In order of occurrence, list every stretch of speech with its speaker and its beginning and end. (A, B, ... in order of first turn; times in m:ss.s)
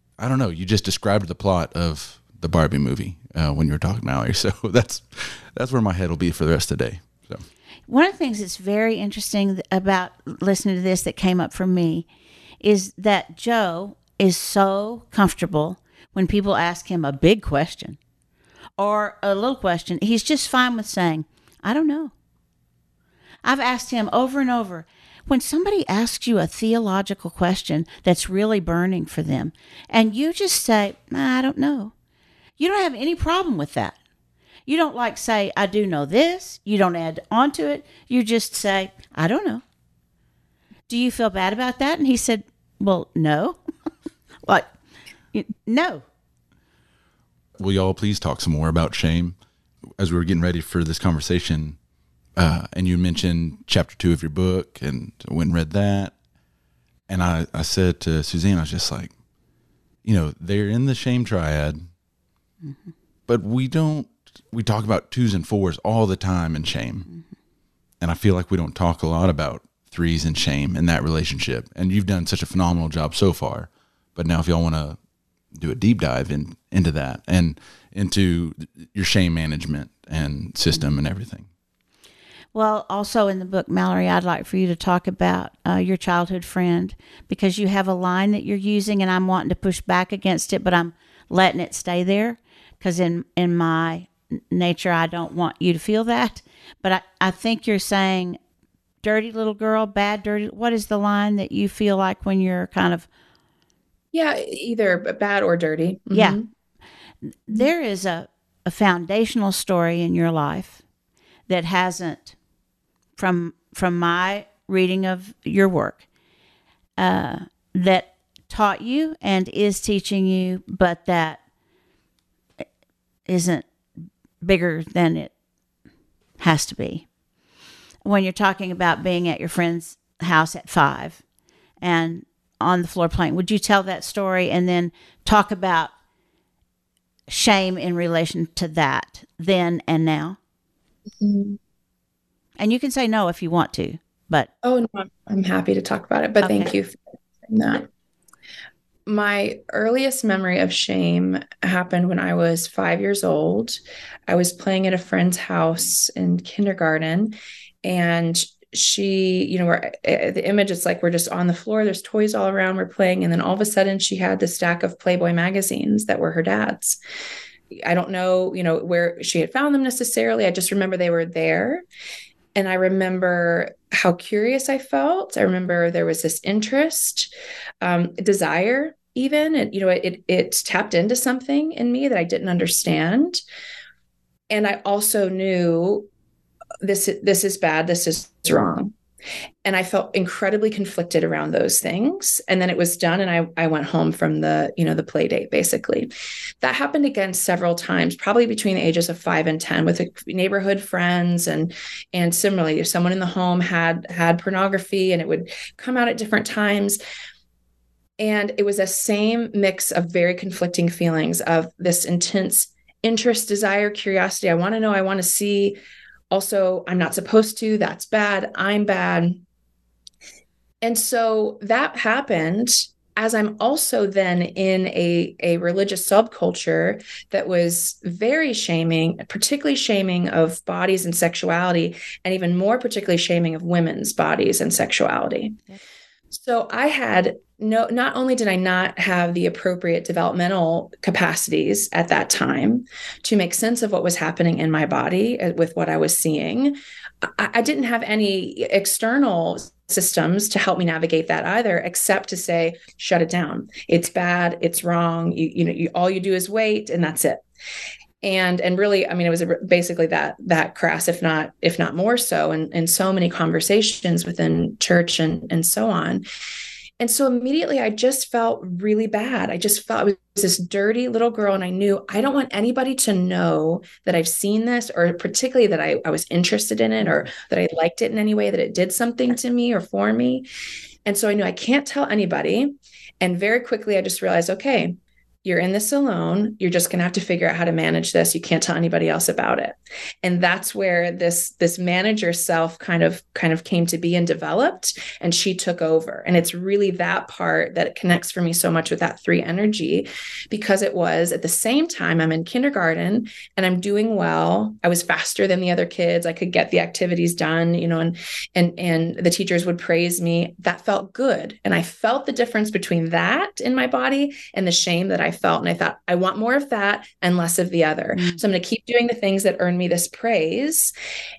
0:00.2-0:07.4 A
0:07.9-0:12.0 B
0:12.6-0:18.0 B
0:18.8-0:22.1 B
0:23.4-0:31.9 B
0:32.6-0:34.0 B
0:34.7-0:39.6 B
0:40.9-0:43.6 B
0:44.4-0:44.7 B
0:45.3-0:46.0 B
0:47.6-0:49.4 A
0:50.0-0:51.8 A
0:52.4-0:56.1 A
0:57.1-0:59.1 A
1:00.0-1:01.9 A
1:02.6-1:02.9 B
1:03.3-1:07.1 A
1:08.0-1:15.0 A
1:15.5-1:21.5 A
1:22.5-1:38.4 B
1:39.0-1:43.1 B
1:44.1-1:46.5 C
1:46.1-1:46.4 B
1:47.5-1:50.8 B
1:51.5-1:52.3 B
1:53.2-1:56.0 B
1:57.0-2:01.4 B
2:03.3-2:03.6 B
2:04.4-2:05.3 B
2:06.4-2:07.0 B
2:08.0-2:11.2 B
2:11.8-2:15.9 B
2:17.3-2:20.4 B
2:21.2-2:21.6 C
2:22.6-2:24.5 B
2:24.6-2:27.0 C
2:26.4-2:26.7 B
2:27.5-2:27.8 C
2:29.1-2:47.0 C
2:47.8-2:51.8 C
2:52.5-2:57.3 C
2:57.8-3:03.4 C
3:04.5-3:06.1 C
3:06.8-3:08.9 C
3:09.6-3:16.1 C
3:16.6-3:27.0 C
3:28.2-3:35.8 C
3:36.3-3:39.4 C
3:40.8-3:55.6 C
3:56.3-4:06.8 C
4:07.4-4:17.4 C
4:18.2-4:26.2 C
4:27.0-4:40.5 C
4:41.0-5:20.9 C
5:18.2-5:18.4 B